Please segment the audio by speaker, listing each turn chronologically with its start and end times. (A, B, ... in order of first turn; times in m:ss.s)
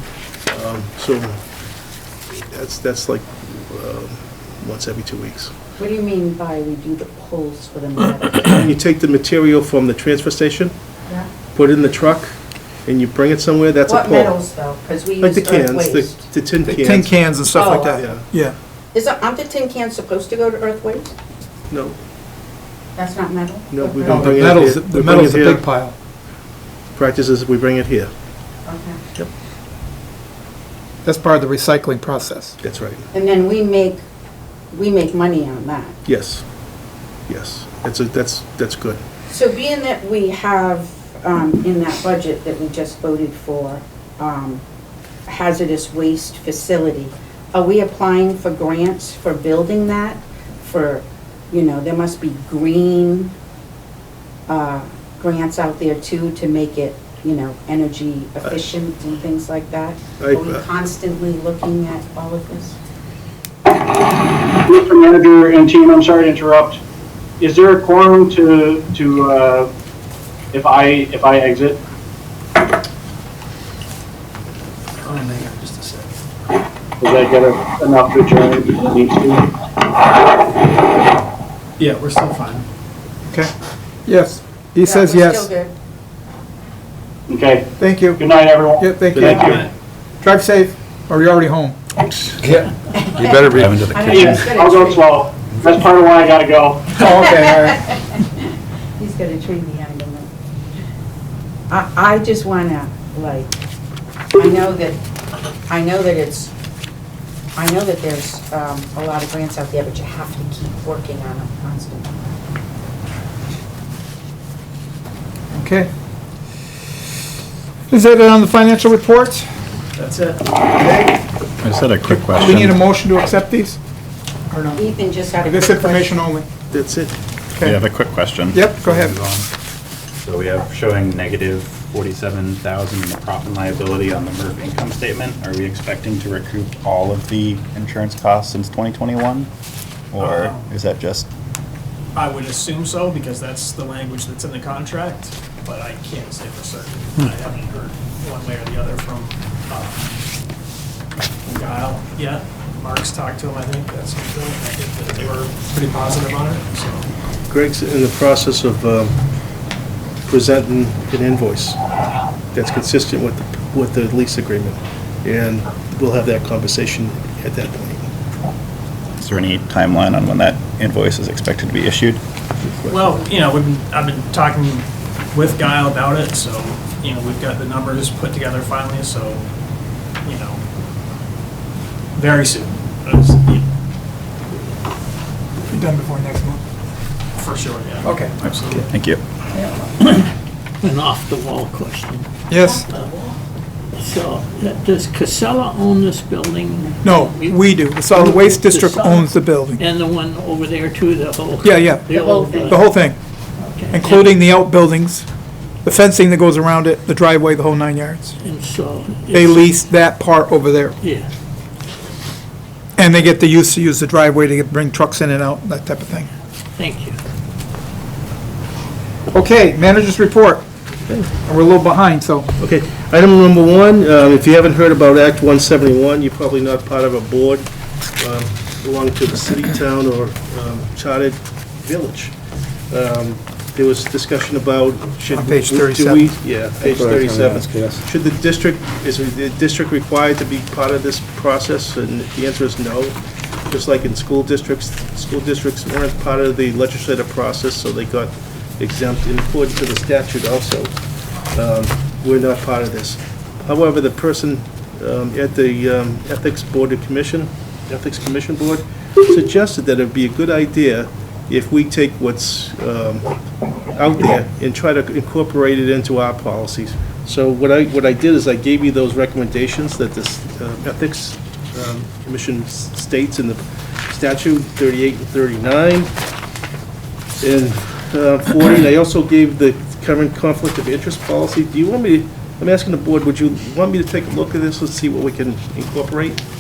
0:00.5-0:01.4 A
0:02.3-0:05.5 A
0:05.8-0:08.7 B
0:08.5-0:10.7 A
0:11.5-0:14.4 A
0:13.9-0:16.3 B
0:15.2-0:18.2 A
0:16.7-0:18.6 C
0:17.5-0:17.9 B
0:18.9-0:21.1 B
0:21.7-0:22.0 A
0:23.0-0:24.4 B
0:23.7-0:25.6 A
0:24.1-0:26.0 C
0:27.0-0:28.1 A
0:28.7-0:29.0 B
0:31.0-0:32.6 C
0:32.6-0:33.1 A
0:33.1-0:34.0 B
0:34.7-0:36.0 B
0:36.1-0:36.4 A
0:37.3-0:39.0 A
0:39.3-0:44.6 B
0:45.3-0:53.3 B
0:54.5-1:02.8 B
1:00.2-1:00.6 A
1:04.5-1:06.8 D
1:07.4-1:09.7 D
1:10.5-1:11.8 D
1:15.0-1:16.1 E
1:17.0-1:19.5 D
1:21.8-1:22.7 E
1:24.1-1:25.5 C
1:24.8-1:25.7 B
1:27.3-1:29.6 D
1:27.8-1:28.2 C
1:28.8-1:29.4 C
1:30.2-1:31.8 C
1:32.9-1:35.1 B
1:33.2-1:33.5 A
1:33.4-1:34.5 F
1:34.1-1:37.0 D
1:37.0-1:37.8 C
1:37.1-1:40.3 B
1:41.7-1:43.6 B
1:44.4-1:45.0 B
1:45.7-1:46.5 B
1:47.6-1:52.1 B
1:55.5-1:55.9 C
1:57.9-1:59.5 C
2:00.0-2:00.4 E
2:01.6-2:02.8 F
2:02.1-2:03.8 C
2:04.5-2:04.8 C
2:04.8-2:06.2 B
2:05.4-2:06.5 C
2:06.7-2:07.1 A
2:07.6-2:09.5 F
2:08.5-2:09.2 C
2:10.2-2:19.5 F
2:20.1-2:21.3 F
2:20.2-2:20.7 E
2:22.2-2:30.0 E
2:31.5-2:37.1 E
2:37.5-2:39.2 A
2:40.3-2:41.8 A
2:42.5-2:48.1 A
2:49.2-2:52.2 F
2:52.6-2:53.2 A
2:52.9-2:59.5 E
3:00.2-3:00.6 E
3:02.2-3:03.6 E
3:05.7-3:06.6 C
3:07.4-3:08.9 E
3:08.0-3:08.3 C
3:08.7-3:09.2 F
3:10.0-3:12.3 G
3:12.5-3:12.8 C
3:12.6-3:13.4 B
3:14.0-3:22.8 G
3:17.0-3:19.8 C
3:21.6-3:22.1 C
3:22.1-3:22.8 B
3:22.6-3:23.2 C
3:23.6-3:24.5 G
3:23.9-3:25.3 C
3:25.8-3:28.4 C
3:28.4-3:29.7 G
3:29.3-3:31.0 C
3:31.0-3:31.3 G
3:33.0-3:36.3 C
3:36.8-3:37.2 G
3:39.3-3:40.7 C
3:41.3-3:42.5 C
3:42.6-3:47.7 A
3:48.2-3:52.3 A
3:52.9-4:03.2 A
3:55.3-3:56.3 C
3:57.0-3:57.6 F
4:03.7-4:10.9 A
4:11.5-4:23.3 A
4:23.9-4:36.1 A
4:37.4-4:46.4 A